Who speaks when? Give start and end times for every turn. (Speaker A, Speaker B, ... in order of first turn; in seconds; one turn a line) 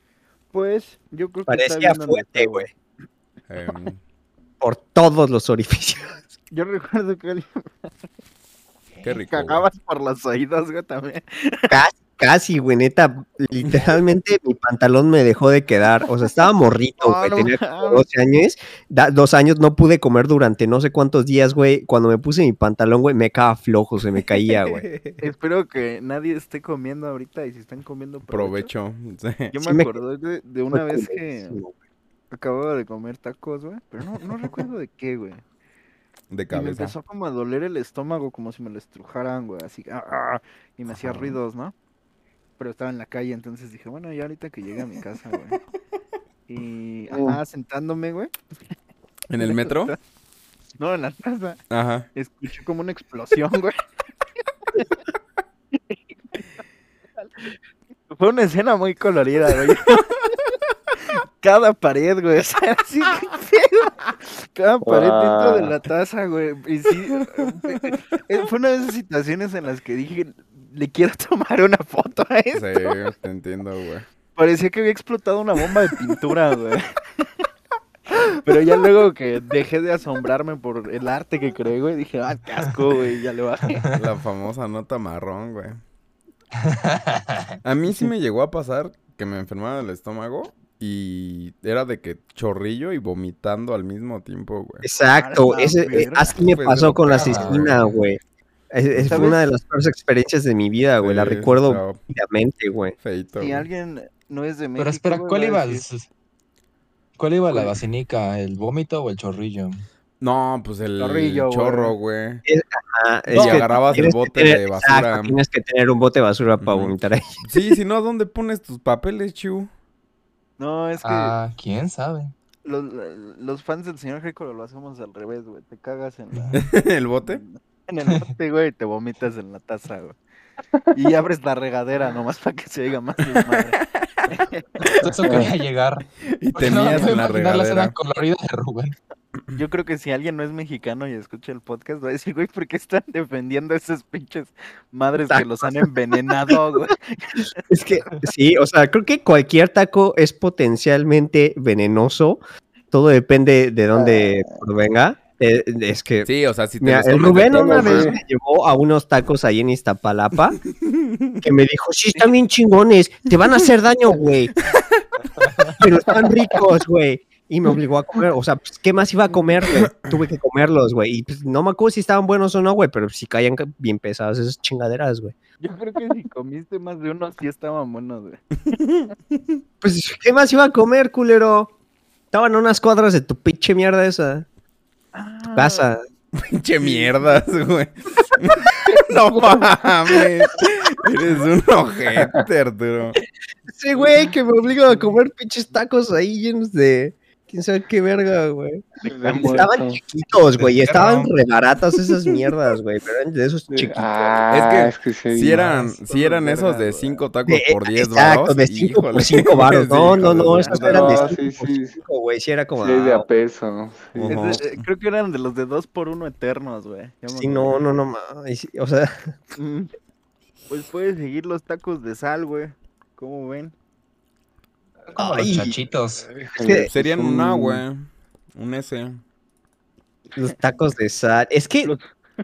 Speaker A: 0.5-2.7
Speaker B: 1.5-2.7
Speaker C: 3.5-4.0
Speaker B: 4.6-6.2
Speaker A: 6.5-7.7
Speaker C: 9.0-9.7
Speaker A: 9.0-11.8
Speaker B: 11.7-24.9
Speaker A: 17.0-18.0
Speaker C: 24.6-25.2
Speaker A: 25.2-28.7
Speaker C: 28.3-29.6
Speaker A: 29.5-31.6
Speaker B: 29.6-30.0
Speaker B: 30.7-31.7
Speaker A: 32.3-35.4
Speaker C: 36.3-36.9
Speaker A: 36.5-41.7
Speaker A: 42.6-45.6
Speaker A: 46.5-48.3
Speaker D: 47.1-47.4
Speaker C: 49.3-50.0
Speaker A: 49.4-50.0
Speaker A: 50.8-51.6
Speaker C: 51.7-52.1
Speaker A: 52.1-53.8
Speaker A: 54.7-55.0
Speaker A: 55.7-56.4
Speaker A: 57.2-57.5
Speaker A: 58.1-60.5
Speaker A: 61.0-73.0
Speaker D: 64.8-65.7
Speaker C: 72.5-74.0
Speaker A: 74.3-77.4
Speaker A: 78.2-83.9
Speaker C: 83.9-85.8
Speaker E: 86.6-87.5
Speaker C: 87.6-94.8
Speaker B: 94.8-98.2
Speaker A: 95.2-96.3
Speaker C: 96.4-97.9
Speaker E: 97.1-98.0
Speaker B: 98.7-103.0
Speaker C: 98.9-99.3
Speaker A: 99.0-99.4
Speaker C: 101.0-102.0
Speaker C: 103.0-103.7
Speaker A: 103.3-105.8
Speaker E: 104.8-106.1
Speaker E: 107.2-109.8
Speaker C: 110.2-112.4
Speaker A: 111.0-111.9
Speaker B: 112.5-117.4
Speaker C: 113.3-115.4
Speaker C: 116.6-119.7
Speaker A: 120.6-121.3
Speaker E: 121.0-122.3
Speaker A: 122.6-130.2
Speaker C: 126.5-127.4
Speaker A: 130.9-134.9
Speaker C: 133.3-134.3
Speaker E: 134.9-138.9
Speaker D: 135.2-135.5
Speaker C: 136.3-137.9
Speaker A: 136.6-137.2
Speaker A: 139.5-148.2
Speaker B: 145.3-145.8
Speaker B: 147.7-156.3
Speaker D: 153.9-154.4
Speaker C: 156.2-158.1
Speaker B: 156.8-160.6
Speaker D: 157.3-158.2
Speaker C: 160.8-161.4
Speaker B: 161.4-164.6
Speaker B: 165.8-175.3
Speaker A: 175.6-178.8
Speaker C: 178.7-179.6
Speaker B: 179.8-181.7
Speaker B: 182.3-184.4
Speaker A: 185.1-185.9
Speaker B: 185.5-186.0
Speaker C: 186.3-193.2
Speaker A: 186.8-187.5
Speaker A: 188.9-189.6
Speaker B: 193.7-204.4
Speaker D: 199.1-200.0
Speaker A: 199.2-199.6
Speaker E: 200.5-201.3
Speaker D: 203.7-205.6
Speaker C: 204.5-211.3
Speaker E: 205.5-205.9
Speaker A: 205.7-207.2
Speaker B: 207.5-213.2
Speaker A: 210.3-211.3
Speaker D: 210.6-212.0
Speaker D: 212.8-214.4
Speaker C: 214.1-214.8
Speaker A: 214.2-217.8
Speaker B: 217.3-219.3
Speaker A: 219.6-219.9
Speaker A: 220.7-223.7
Speaker E: 225.1-226.2
Speaker B: 225.2-225.8
Speaker D: 226.3-227.1
Speaker B: 226.6-227.8
Speaker C: 226.9-229.2
Speaker B: 230.3-231.9